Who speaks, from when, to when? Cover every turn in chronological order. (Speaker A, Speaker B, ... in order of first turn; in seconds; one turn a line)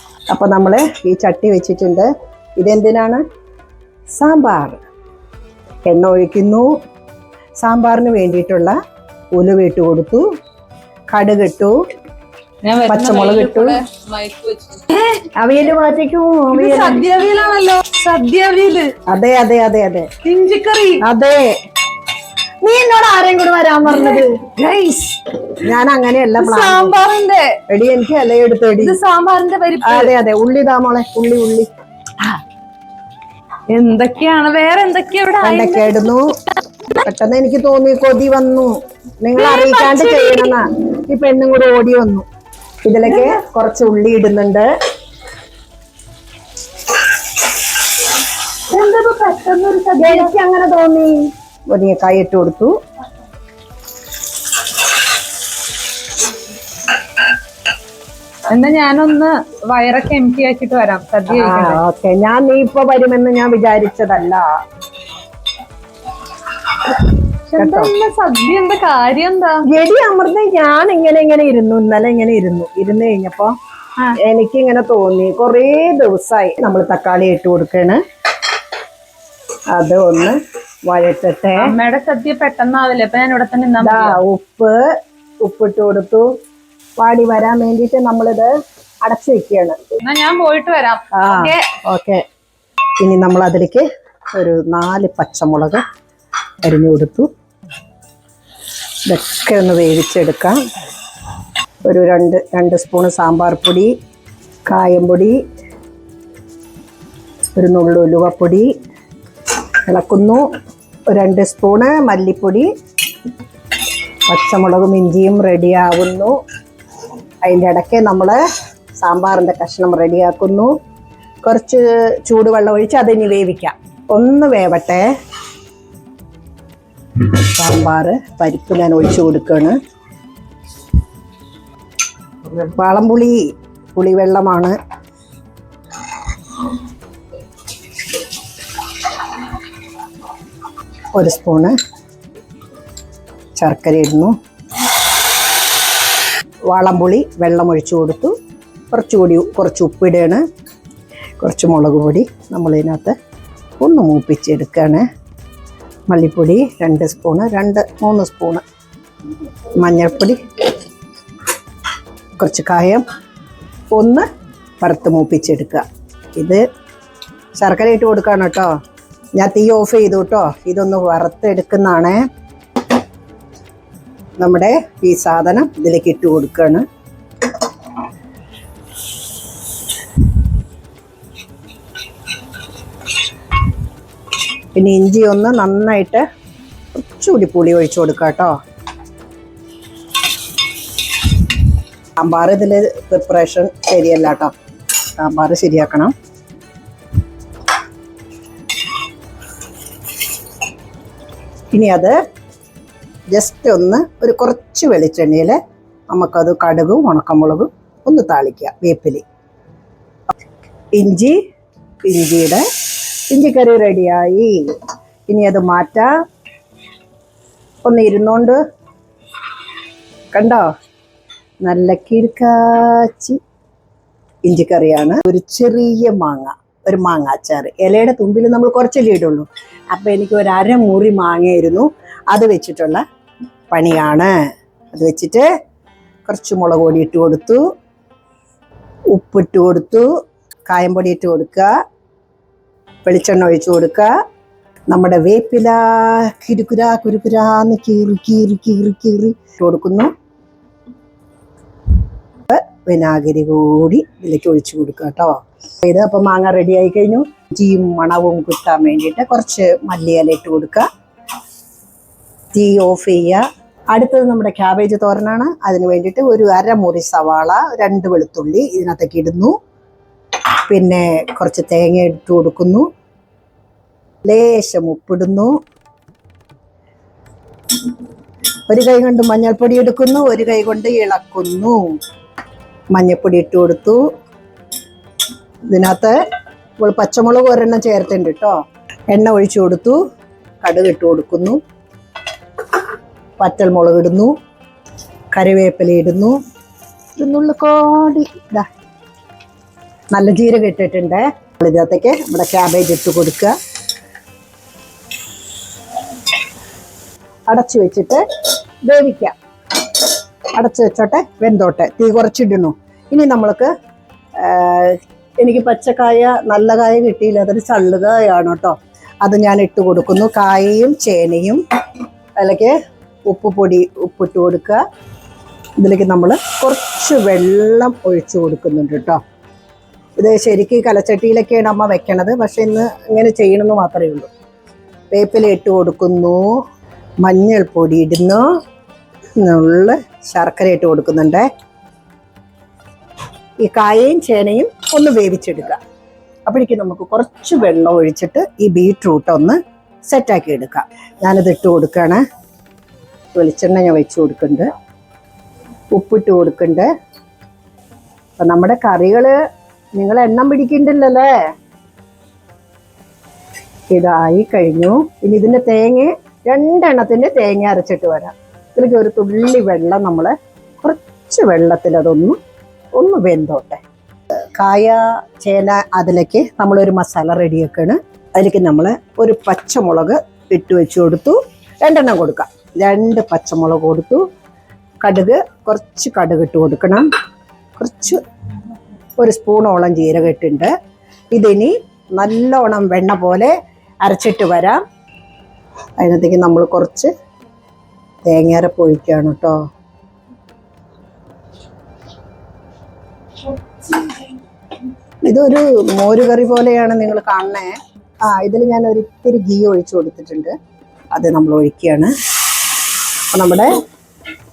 Speaker A: 0.3-3.2
Speaker A: 4.1-4.8
Speaker A: 5.9-6.7
Speaker A: 7.6-8.8
Speaker A: 9.3-10.2
Speaker A: 11.1-11.7
Speaker B: 12.6-15.2
Speaker A: 12.9-13.8
Speaker A: 15.4-17.0
Speaker B: 16.5-19.0
Speaker A: 19.1-20.1
Speaker B: 20.2-21.0
Speaker A: 21.0-21.5
Speaker A: 22.6-24.5
Speaker B: 23.9-25.4
Speaker A: 25.6-26.9
Speaker B: 26.4-27.6
Speaker A: 27.7-29.0
Speaker B: 28.8-30.1
Speaker A: 29.8-31.7
Speaker B: 33.7-37.0
Speaker A: 35.4-36.3
Speaker A: 37.0-42.2
Speaker B: 39.3-40.6
Speaker A: 42.8-44.7
Speaker B: 43.1-43.4
Speaker B: 48.7-50.3
Speaker A: 50.0-52.7
Speaker B: 58.5-61.8
Speaker A: 61.3-64.5
Speaker B: 67.5-69.6
Speaker A: 67.6-67.9
Speaker A: 69.7-73.5
Speaker A: 74.2-78.0
Speaker A: 79.7-81.7
Speaker B: 81.6-84.2
Speaker A: 83.8-84.9
Speaker A: 85.4-86.3
Speaker A: 87.0-88.5
Speaker A: 89.0-89.8
Speaker B: 90.0-91.7
Speaker A: 91.1-92.2
Speaker A: 93.0-95.8
Speaker A: 96.6-97.3
Speaker A: 99.1-100.6
Speaker A: 101.8-103.9
Speaker A: 104.7-105.4
Speaker A: 107.5-108.7
Speaker A: 109.9-110.4
Speaker A: 111.1-112.7
Speaker A: 114.3-116.3
Speaker A: 117.4-118.4
Speaker A: 119.0-120.7
Speaker A: 121.4-125.1
Speaker A: 127.2-129.8
Speaker A: 132.5-134.8
Speaker A: 141.1-141.7
Speaker A: 143.6-144.3
Speaker A: 146.7-148.3
Speaker A: 148.9-150.4
Speaker A: 151.4-153.1
Speaker A: 153.8-155.0
Speaker A: 156.1-158.6
Speaker A: 159.8-160.4
Speaker A: 162.4-163.0
Speaker A: 163.9-164.2
Speaker A: 164.8-165.8
Speaker A: 166.3-166.6
Speaker A: 167.6-168.7
Speaker A: 169.3-172.2
Speaker A: 174.4-176.8
Speaker A: 184.7-186.2
Speaker A: 186.9-188.5
Speaker A: 192.2-194.5
Speaker A: 195.2-196.1
Speaker A: 201.7-202.2
Speaker A: 203.3-205.6
Speaker A: 206.1-209.2
Speaker A: 210.9-211.4
Speaker A: 212.1-212.6
Speaker A: 213.3-214.7
Speaker A: 215.3-216.1
Speaker A: 217.8-218.6
Speaker A: 220.3-220.7
Speaker A: 221.6-223.4
Speaker A: 224.4-233.0
Speaker A: 233.7-234.3
Speaker A: 234.9-235.4
Speaker A: 236.2-237.6
Speaker A: 239.1-240.1
Speaker A: 240.7-241.7
Speaker A: 243.0-244.1
Speaker A: 244.9-250.1
Speaker A: 252.5-260.9
Speaker A: 262.5-269.5
Speaker A: 270.7-272.9
Speaker A: 274.2-275.6
Speaker A: 278.7-281.8
Speaker A: 282.9-284.0
Speaker A: 285.7-286.1
Speaker A: 286.8-288.5
Speaker A: 289.1-290.0
Speaker A: 290.6-291.6
Speaker A: 293.4-294.3
Speaker A: 295.3-296.4
Speaker A: 297.2-298.7
Speaker A: 300.1-303.5
Speaker A: 307.5-308.2
Speaker A: 308.8-309.4
Speaker A: 310.5-313.7
Speaker A: 314.4-321.6
Speaker A: 322.4-322.7
Speaker A: 323.3-324.8
Speaker A: 325.8-329.2
Speaker A: 330.2-334.3
Speaker A: 335.1-336.6
Speaker A: 337.2-338.4
Speaker A: 339.4-341.4
Speaker A: 343.6-345.8
Speaker A: 346.4-352.2
Speaker A: 353.3-354.7
Speaker A: 355.9-356.9
Speaker A: 358.4-359.4
Speaker A: 359.9-361.3
Speaker A: 363.9-372.4
Speaker A: 372.9-373.8
Speaker A: 374.6-384.2
Speaker A: 385.0-387.1
Speaker A: 387.8-388.2
Speaker A: 389.2-390.7
Speaker A: 391.3-393.5
Speaker A: 394.0-394.8
Speaker A: 396.0-397.1
Speaker A: 398.2-399.6
Speaker A: 405.2-410.5
Speaker A: 411.1-412.1
Speaker A: 413.3-413.7